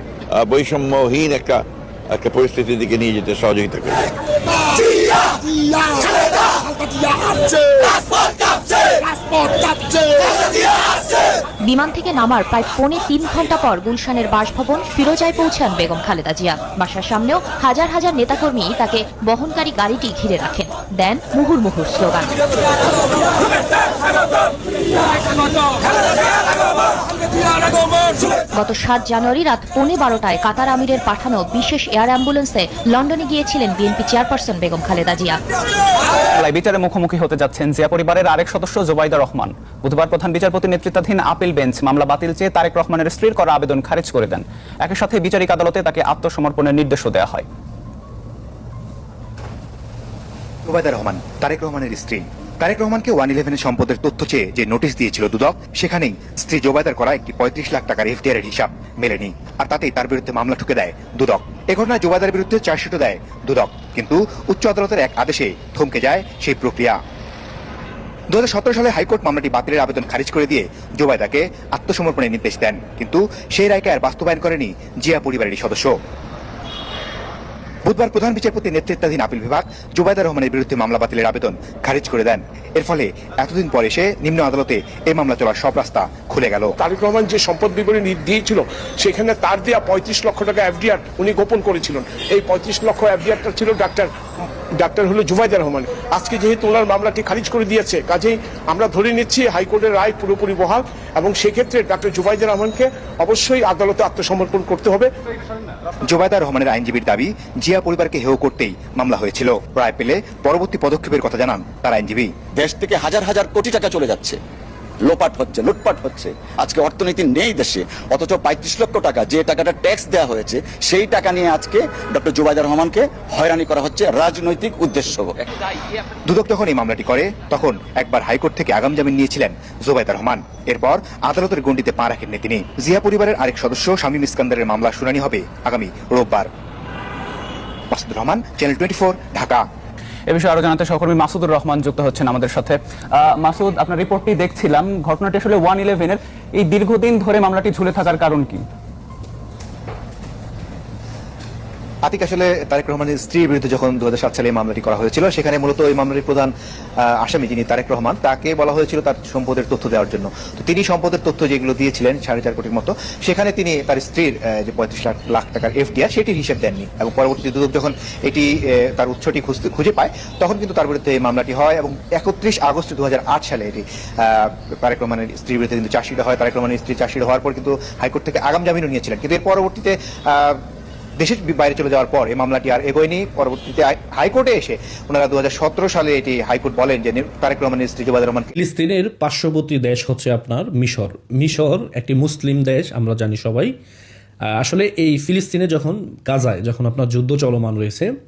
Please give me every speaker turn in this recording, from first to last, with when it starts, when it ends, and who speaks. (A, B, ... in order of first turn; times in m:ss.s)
0:00.3-0:04.0 A
0:11.6-0:22.4 B
0:28.5-0:35.4 B
0:36.3-0:47.5 C
0:50.6-1:07.0 D
1:08.3-1:15.9 D
1:17.8-1:26.7 D
1:26.8-1:34.1 E
1:34.8-1:45.1 E
1:46.1-1:52.3 D
1:52.5-1:54.4 F
1:55.0-2:05.3 F
2:06.3-2:16.5 D
2:17.9-2:19.6 D
2:20.3-2:28.6 C
2:32.0-2:36.5 D
2:37.2-3:00.6 D
3:01.2-3:08.5 D
3:08.5-3:13.7 G
3:14.6-3:18.1 G